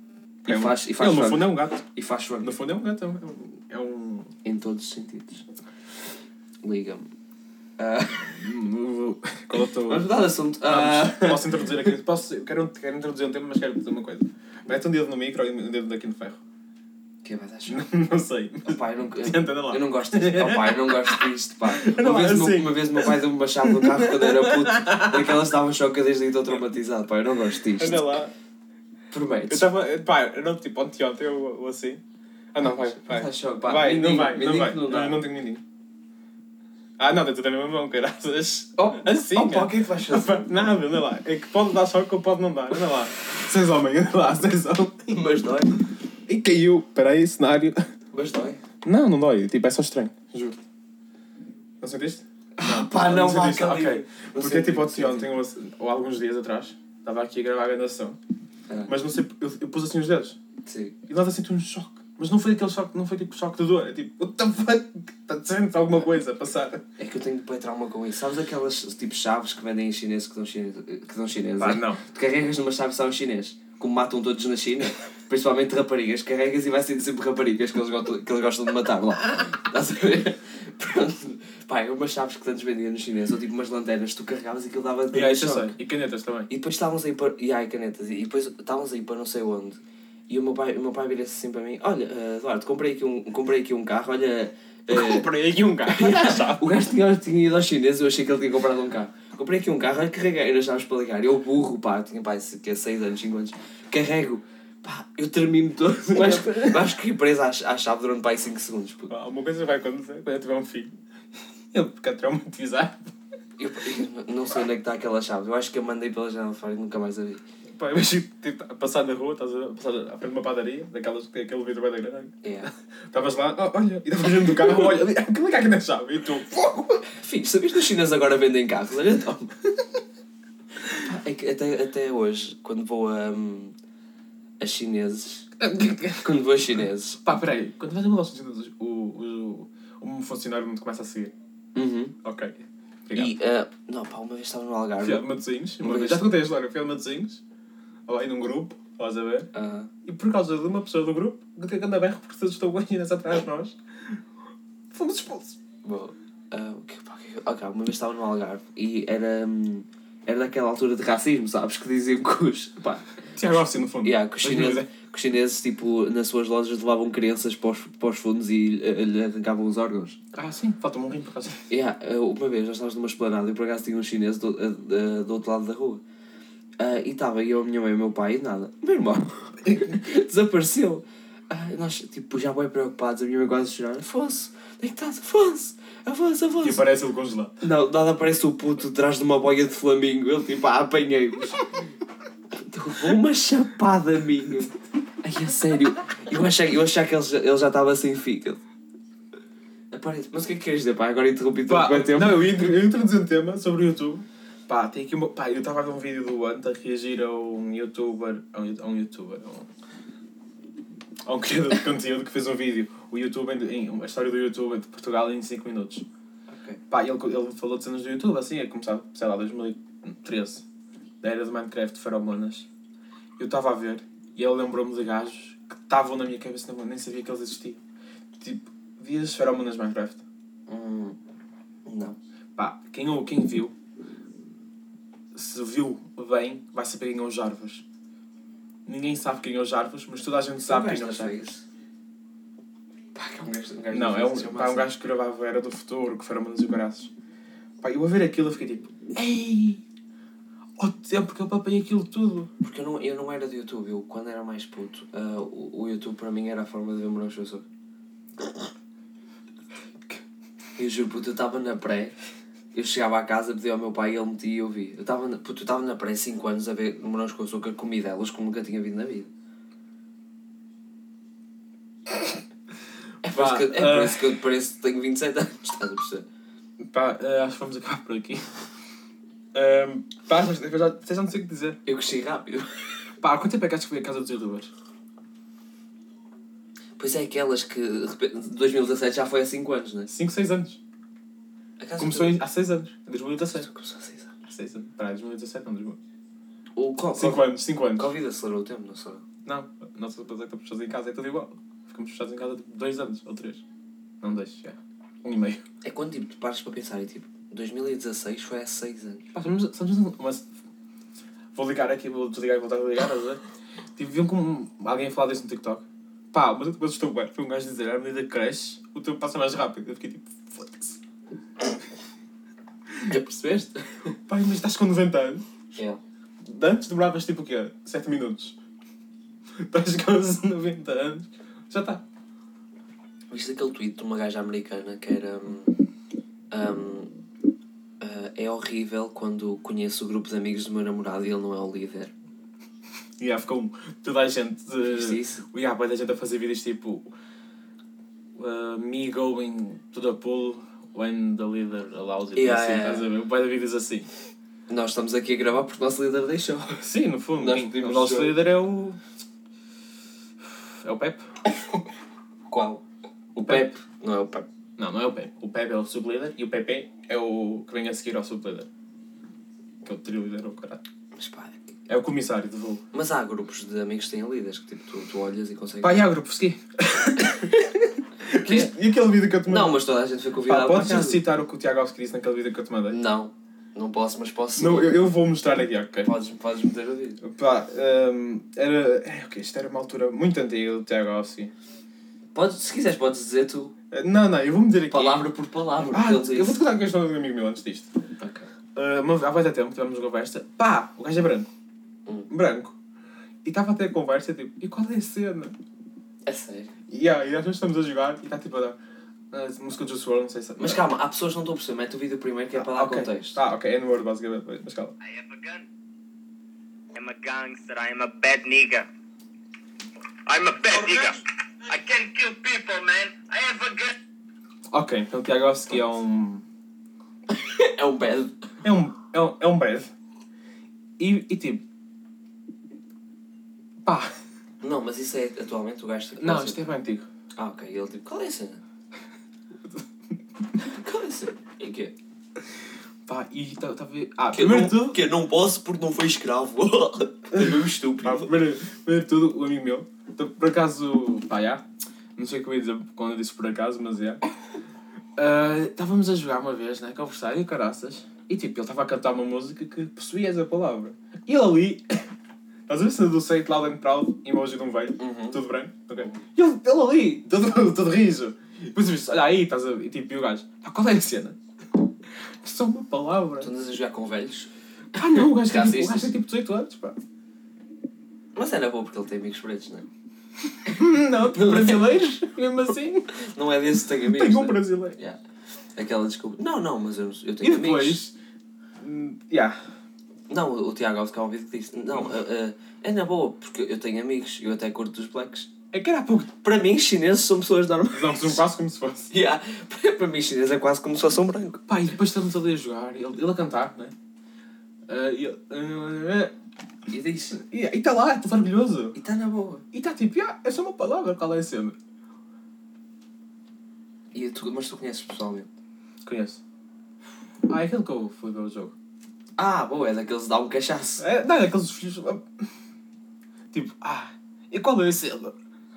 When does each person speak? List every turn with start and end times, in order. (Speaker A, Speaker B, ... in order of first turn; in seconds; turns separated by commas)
Speaker A: 0.4-1.8, Speaker B: 0.5-2.5, Speaker A: 2.4-4.3, Speaker B: 4.4-5.5, Speaker B: 6.6-7.1, Speaker B: 7.8-8.5, Speaker A: 8.3-10.1, Speaker B: 9.8-11.8, Speaker A: 10.6-16.4, Speaker B: 17.2-17.9, Speaker A: 17.7-25.4, Speaker B: 18.6-28.2, Speaker A: 27.7-28.3, Speaker B: 29.1-29.7, Speaker A: 29.5-32.0, Speaker A: 32.5-35.6, Speaker B: 32.6-35.2, Speaker A: 37.0-45.1, Speaker B: 38.8-40.7, Speaker B: 45.1-45.8, Speaker A: 46.3-47.8, Speaker B: 48.1-48.6, Speaker A: 48.8-50.6, Speaker A: 51.8-58.2, Speaker B: 52.5-55.3, Speaker A: 58.9-60.4, Speaker B: 60.6-61.0, Speaker A: 61.1-66.8, Speaker B: 67.0-85.8, Speaker A: 71.6-72.0, Speaker A: 85.1-86.5, Speaker B: 86.5-95.3, Speaker A: 94.9-96.7, Speaker B: 95.8-109.1, Speaker A: 106.1-106.9, Speaker A: 109.1-110.9, Speaker A: 111.7-113.0, Speaker B: 113.6-117.4, Speaker A: 117.8-127.0, Speaker B: 122.4-122.7, Speaker B: 127.1-129.5, Speaker B: 130.9-133.7, Speaker B: 134.6-135.5, Speaker A: 135.6-136.3, Speaker B: 136.0-137.2, Speaker A: 137.2-141.3, Speaker B: 141.7-142.2, Speaker A: 142.2-143.3, Speaker B: 143.1-145.3, Speaker A: 145.0-147.4, Speaker B: 145.8-146.2, Speaker A: 148.1-149.5, Speaker B: 149.5-149.9, Speaker A: 150.0-154.2, Speaker A: 154.9-155.6, Speaker B: 155.8-163.2, Speaker A: 163.3-164.9, Speaker B: 164.0-170.2, Speaker A: 170.3-171.6, Speaker B: 171.7-176.0, Speaker B: 176.8-186.8, Speaker A: 186.6-187.6, Speaker B: 187.6-191.7, Speaker B: 192.6-198.6, Speaker B: 199.9-202.5, Speaker A: 201.7-209.7, Speaker A: 211.2-216.0, Speaker B: 216.5-216.8, Speaker A: 216.9-220.6, Speaker A: 221.2-222.7, Speaker A: 223.4-227.8, Speaker A: 228.4-230.2, Speaker B: 230.7-231.2, Speaker B: 231.8-232.2, Speaker A: 232.6-233.7, Speaker A: 235.3-237.8, Speaker A: 238.8-241.5, Speaker B: 240.6-241.6, Speaker B: 243.1-244.9, Speaker A: 243.9-247.1, Speaker A: 247.8-249.8, Speaker A: 250.8-252.5, Speaker B: 252.6-257.6, Speaker B: 260.8-262.1, Speaker B: 262.7-269.3, Speaker B: 273.2-276.2, Speaker A: 273.3-274.4, Speaker A: 276.8-278.6, Speaker A: 279.5-281.8, Speaker B: 281.9-283.0, Speaker A: 283.2-284.7, Speaker B: 287.0-290.1, Speaker A: 290.1-290.8, Speaker B: 291.8-292.4, Speaker A: 292.0-293.7, Speaker B: 293.5-294.3, Speaker A: 294.5-296.0, Speaker B: 296.8-299.2, Speaker A: 297.1-298.1, Speaker A: 299.4-303.6, Speaker A: 304.2-305.6, Speaker B: 305.8-309.3, Speaker A: 309.3-310.5, Speaker A: 311.5-313.4, Speaker A: 313.9-321.0, Speaker B: 323.0-324.2, Speaker A: 324.3-325.4, Speaker A: 326.4-328.6, Speaker A: 329.6-332.0, Speaker B: 333.3-335.7, Speaker B: 336.5-337.1, Speaker B: 338.0-342.1, Speaker A: 343.2-347.1, Speaker B: 344.8-345.4, Speaker A: 348.4-354.1, Speaker B: 352.3-353.1, Speaker B: 354.7-358.4, Speaker A: 356.8-359.0, Speaker A: 360.4-361.3, Speaker B: 362.5-362.8, Speaker A: 363.4-363.7, Speaker B: 363.4-364.4, Speaker A: 364.8-368.7, Speaker A: 369.8-370.8, Speaker B: 371.1-371.7, Speaker A: 371.9-372.8, Speaker B: 372.9-376.1, Speaker A: 375.8-379.8, Speaker B: 378.4-378.7, Speaker B: 379.4-381.2, Speaker A: 380.4-383.0, Speaker B: 382.9-385.0, Speaker A: 384.6-386.1, Speaker B: 386.0-387.2, Speaker A: 387.2-391.5, Speaker B: 392.3-393.7, Speaker A: 393.9-395.3, Speaker B: 394.9-396.6, Speaker A: 395.8-397.9, Speaker B: 398.2-398.5, Speaker A: 398.8-401.5, Speaker A: 402.3-402.7, Speaker A: 403.4-405.6, Speaker B: 406.2-406.7, Speaker A: 406.9-408.8, Speaker A: 409.3-410.8, Speaker B: 410.6-413.4, Speaker A: 412.5-414.9, Speaker C: 415.0-415.6, Speaker C: 416.9-418.9, Speaker C: 420.2-423.9, Speaker A: 424.7-426.4, Speaker B: 427.3-428.5, Speaker A: 428.6-429.9, Speaker A: 431.0-431.6, Speaker A: 433.8-434.1, Speaker B: 434.6-436.6, Speaker A: 436.2-437.1, Speaker B: 437.4-438.6, Speaker B: 440.6-441.9, Speaker A: 443.1-445.0, Speaker B: 444.3-448.3, Speaker A: 447.3-454.2, Speaker A: 455.2-462.0, Speaker A: 462.7-471.4, Speaker B: 465.0-465.4, Speaker A: 472.4-473.5, Speaker B: 473.4-474.5, Speaker A: 474.9-477.0, Speaker B: 475.0-476.1, Speaker B: 478.3-479.9, Speaker A: 480.6-483.1, Speaker B: 481.3-481.9, Speaker B: 483.1-485.2, Speaker A: 484.0-485.0, Speaker B: 485.7-488.0, Speaker A: 487.4-488.1, Speaker A: 488.8-489.6, Speaker B: 490.3-495.5, Speaker A: 495.7-496.4, Speaker B: 496.4-498.4, Speaker A: 497.9-499.1, Speaker B: 499.1-501.6, Speaker A: 501.7-503.9, Speaker A: 504.9-506.3, Speaker B: 506.9-507.4, Speaker A: 507.3-508.9, Speaker B: 508.9-509.6, Speaker A: 509.7-511.8, Speaker B: 514.1-515.5, Speaker A: 516.0-516.4, Speaker A: 517.5-518.7, Speaker B: 519.4-521.1, Speaker A: 521.0-522.3, Speaker A: 523.5-525.3